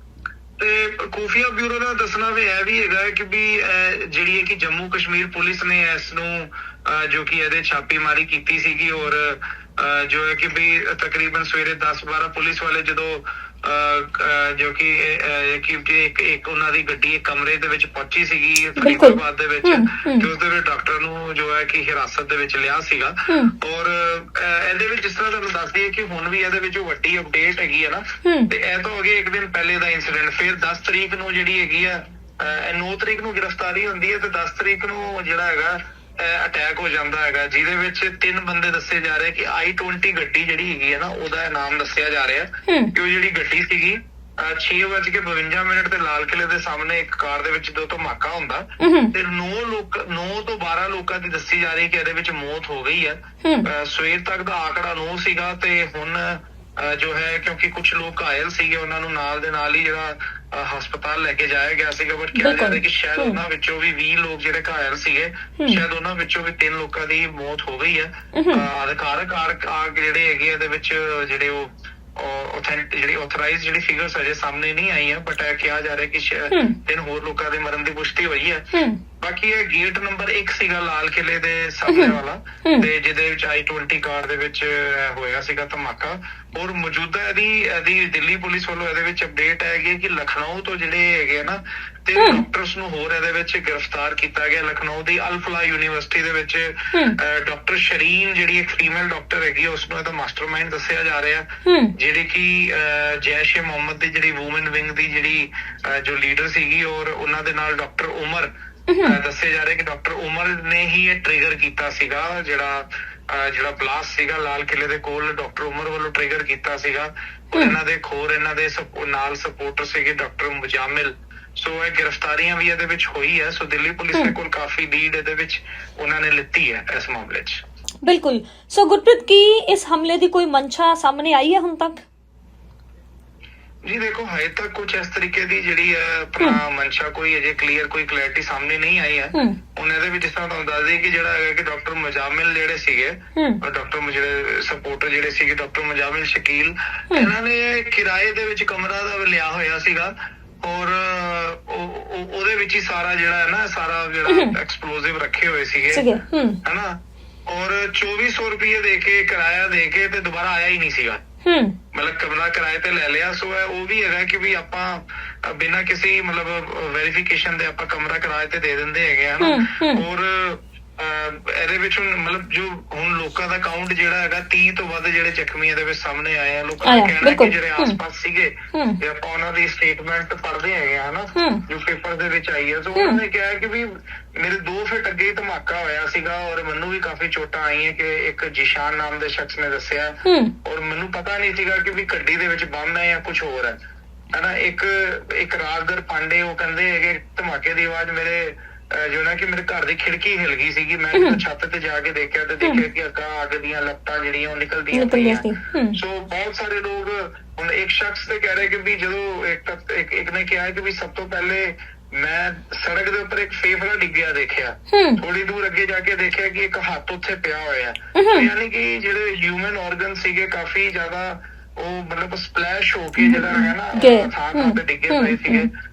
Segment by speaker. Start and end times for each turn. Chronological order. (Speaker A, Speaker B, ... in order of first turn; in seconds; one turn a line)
Speaker A: 0.6-108.5
Speaker B: 18.8-20.3
Speaker B: 23.3-23.5
Speaker B: 28.2-28.5
Speaker B: 42.7-42.9
Speaker B: 48.8-49.1
Speaker B: 62.3-63.4
Speaker B: 68.3-68.6
Speaker B: 76.5-76.8
Speaker B: 78.7-79.0
Speaker B: 81.9-82.9
Speaker B: 92.2-92.4
Speaker B: 96.9-97.2
Speaker B: 101.6-101.9
Speaker B: 108.9-109.2
Speaker A: 109.0-127.6
Speaker B: 128.0-132.0
Speaker A: 133.8-156.1
Speaker B: 143.3-143.6
Speaker B: 154.3-154.5
Speaker B: 155.9-156.6
Speaker A: 156.6-157.0
Speaker A: 157.5-161.2
Speaker B: 161.4-161.8
Speaker A: 161.9-193.8
Speaker B: 169.4-170.0
Speaker B: 176.8-178.0
Speaker B: 178.7-179.0
Speaker B: 181.3-181.6
Speaker B: 190.2-190.5
Speaker A: 194.3-225.7
Speaker B: 201.1-201.4
Speaker B: 204.9-206.0
Speaker B: 214.9-215.2
Speaker B: 218.1-218.5
Speaker B: 223.2-225.7